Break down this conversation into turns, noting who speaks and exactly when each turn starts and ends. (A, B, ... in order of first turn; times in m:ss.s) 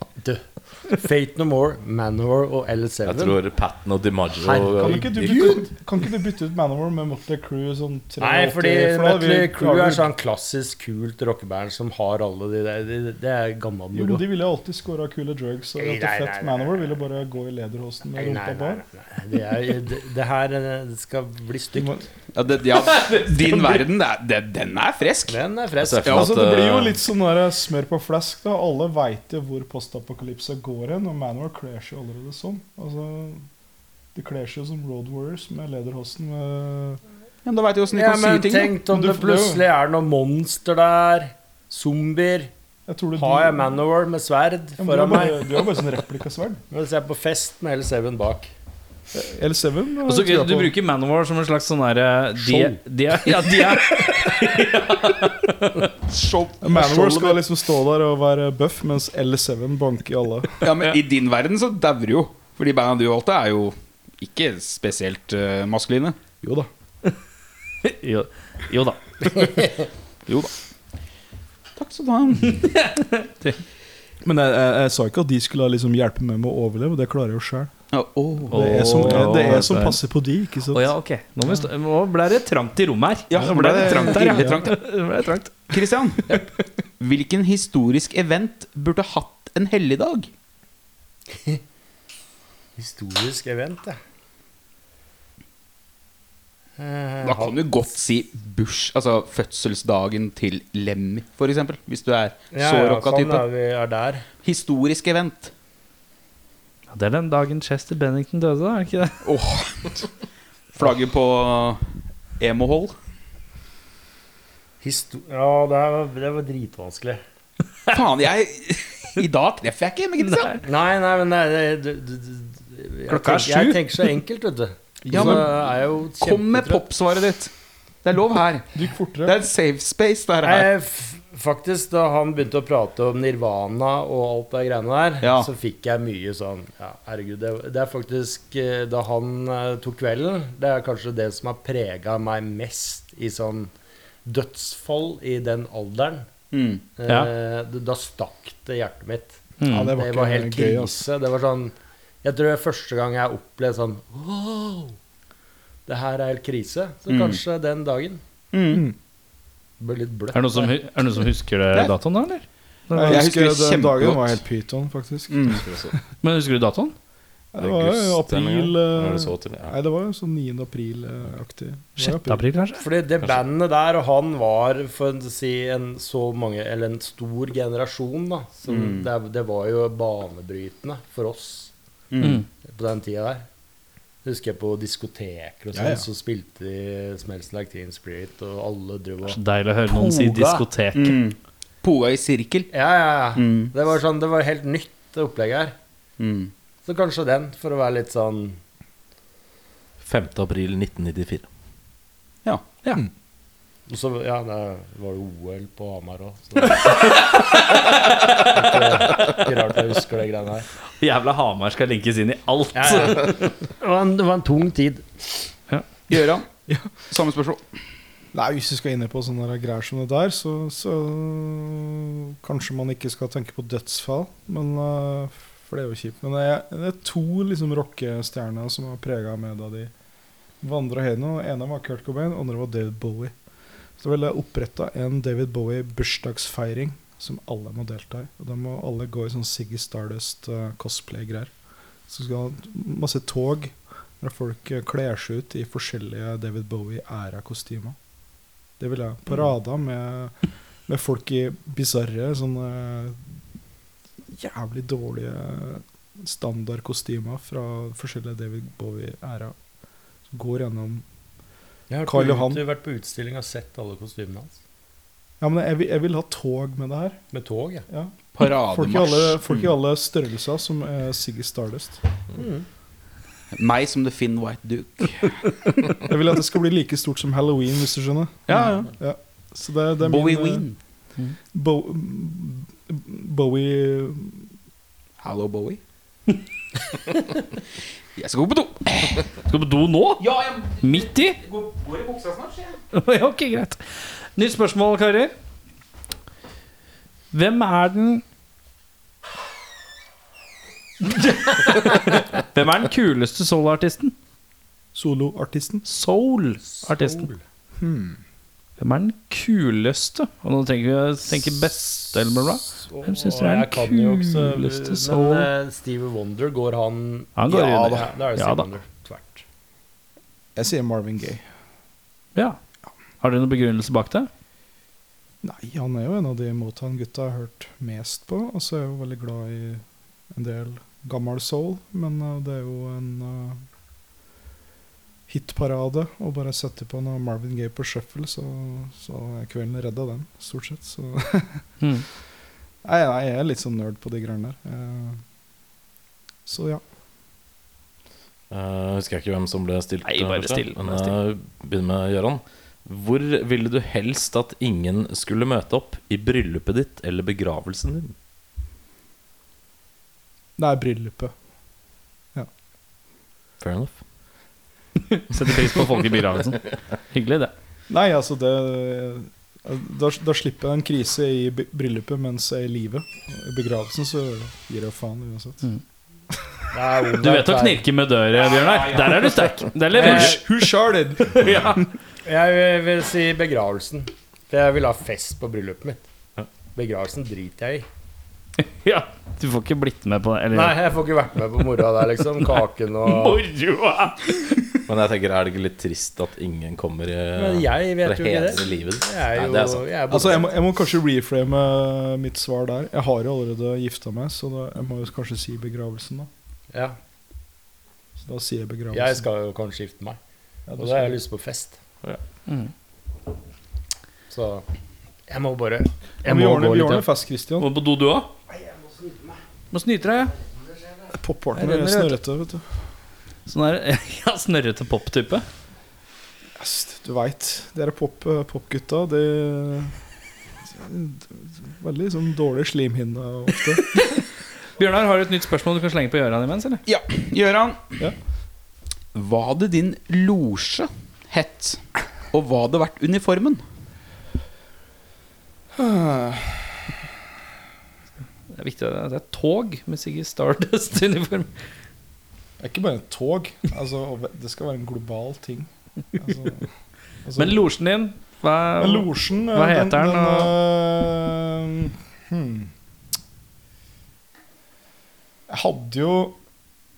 0:00.2-0:03.4 A
0:03.0-0:05.6 B
0:04.4-0:05.6 A
0:04.8-0:10.1 C
0:08.2-0:14.2 A
0:13.9-0:18.8 C
0:15.8-0:16.9 A
0:18.2-0:22.0 A
0:21.7-0:22.0 C
0:22.3-0:25.4 D
0:22.9-0:23.8 E
0:25.2-0:26.2 A
0:25.8-0:27.0 B
0:26.0-0:26.9 D
0:26.1-0:33.4 C
0:34.1-0:37.0 C
0:37.4-0:38.7 D
0:37.9-0:42.5 A
0:38.9-0:39.6 C
0:42.9-0:43.7 C
0:43.2-0:45.7 A
0:44.8-0:46.6 C
0:46.7-0:48.5 A
0:49.1-0:50.7 C
0:50.0-0:55.9 E
0:52.4-0:54.3 A
0:56.0-0:57.4 D
0:56.6-1:00.6 C
1:00.6-1:06.2 D
1:06.4-1:06.7 C
1:07.8-1:09.5 E
1:09.4-1:09.8 A
1:10.3-1:10.5 D
1:11.8-1:12.6 D
1:12.4-1:13.6 E
1:14.2-1:17.7 C
1:17.9-1:19.2 D
1:18.5-1:20.0 E
1:18.5-1:20.9 C
1:20.7-1:25.8 E
1:23.3-1:24.8 D
1:24.2-1:24.6 C
1:25.7-1:26.3 D
1:27.0-1:30.3 D
1:31.3-1:31.6 A
1:32.8-1:34.0 A
1:36.8-1:37.5 A
1:37.2-1:43.4 D
1:42.5-1:44.3 A
1:44.4-1:45.5 D
1:46.9-1:49.2 E
1:49.2-1:50.1 D
1:50.7-1:53.0 D
1:54.8-1:57.2 A
1:57.9-2:00.6 D
2:00.2-2:00.6 E
2:00.6-2:06.8 A
2:03.1-2:04.1 E
2:05.0-2:05.5 C
2:05.1-2:05.6 D
2:06.2-2:07.5 D
2:08.0-2:10.7 D
2:08.7-2:09.4 C
2:10.4-2:23.7 A
2:15.2-2:15.5 D
2:24.2-2:26.3 A
2:26.5-2:26.8 D
2:27.0-2:34.9 A
2:29.6-2:30.0 E
2:29.6-2:31.0 C
2:35.8-2:38.2 A
2:37.1-2:37.4 D
2:38.5-2:38.8 D
2:39.8-2:40.7 A
2:40.3-2:43.2 E
2:42.9-2:45.6 C
2:43.0-2:44.4 D
2:45.3-2:45.6 D
2:45.5-2:46.0 B
2:46.2-2:46.9 E
2:47.5-2:52.4 C
2:47.6-2:49.7 B
2:52.0-2:52.8 E
2:52.8-3:01.7 A
2:58.7-2:59.1 D
3:02.1-3:02.4 D
3:02.2-3:02.4 E
3:02.7-3:03.4 A
3:04.2-3:09.4 A
3:05.7-3:06.0 C
3:09.2-3:11.2 E
3:09.9-3:10.6 A
3:10.9-3:12.7 D
3:12.7-3:15.7 A
3:13.3-3:13.7 D
3:16.2-3:16.5 D
3:16.8-3:18.6 A
3:20.0-3:21.4 B
3:23.9-3:27.3 A
3:28.2-3:30.7 A
3:31.0-3:33.5 E
3:32.7-3:35.4 A
3:36.1-3:36.5 D
3:37.1-3:37.6 D
3:38.3-3:49.9 C
3:50.6-3:53.3 C
3:54.0-4:01.5 C
4:02.1-4:08.0 C
4:08.8-4:10.3 C
4:10.9-4:13.2 C
4:14.2-4:19.5 C
4:20.3-4:21.0 C
4:21.9-4:24.6 A
4:22.0-4:22.6 C
4:25.4-4:27.2 C
4:27.3-4:27.8 A
4:27.9-4:32.0 C
4:28.3-4:29.6 D
4:32.3-4:32.6 A
4:33.5-4:35.4 D
4:35.9-4:40.6 C
4:38.5-4:38.8 D
4:40.0-4:40.7 D
4:41.5-4:44.5 C
4:45.2-4:45.8 D
4:48.1-4:49.3 D
4:49.5-4:50.2 E
4:50.2-4:52.8 D
4:50.8-4:51.4 E
4:52.9-4:55.3 E
4:57.3-4:58.2 E
5:01.0-5:04.1 E
5:04.9-5:05.8 C
5:05.8-5:07.3 E
5:06.6-5:07.4 A
5:07.8-5:08.2 C
5:08.8-5:15.5 E
5:12.7-5:19.4 A
5:17.4-5:18.7 E
5:20.6-5:21.4 C
5:23.2-5:24.3 E
5:25.4-5:33.6 C
5:35.3-5:41.6 C
5:42.8-5:45.2 C
5:46.4-5:46.8 C
5:48.5-5:58.1 B
5:50.0-5:51.1 E
6:00.6-6:01.3 C
6:03.6-6:04.0 B
6:05.1-6:07.5 E
6:07.9-6:15.6 C
6:16.3-6:16.6 C
6:16.7-6:17.8 A
6:17.2-6:20.4 E
6:18.4-6:19.5 D
6:19.9-6:20.4 A
6:19.9-6:21.9 C
6:21.2-6:21.9 E
6:22.2-6:26.0 A
6:26.7-6:27.9 A
6:28.6-6:30.8 E
6:30.5-6:33.4 A
6:33.0-6:34.7 E
6:34.8-6:40.4 B
6:37.4-6:40.5 A
6:40.1-6:46.3 C
6:48.2-6:49.2 C
6:48.9-6:50.2 A
6:50.7-6:51.2 C
6:50.8-6:51.8 A
6:54.3-6:54.6 A
6:55.3-6:57.1 A
6:56.2-6:57.7 C
6:57.6-6:58.3 E
6:58.5-6:59.4 A
6:59.7-7:00.4 E
7:01.2-7:02.7 C
7:01.6-7:02.2 E
7:03.5-7:05.4 E
7:06.6-7:09.9 C
7:10.7-7:14.0 C
7:13.9-7:14.2 E
7:14.8-7:16.8 E
7:16.8-7:17.9 D
7:19.1-7:23.6 D
7:25.7-7:26.8 C
7:28.5-7:31.5 E
7:32.6-7:36.7 C
7:37.2-7:37.6 C
7:37.4-7:40.5 E
7:38.8-7:42.7 C
7:45.5-7:46.4 C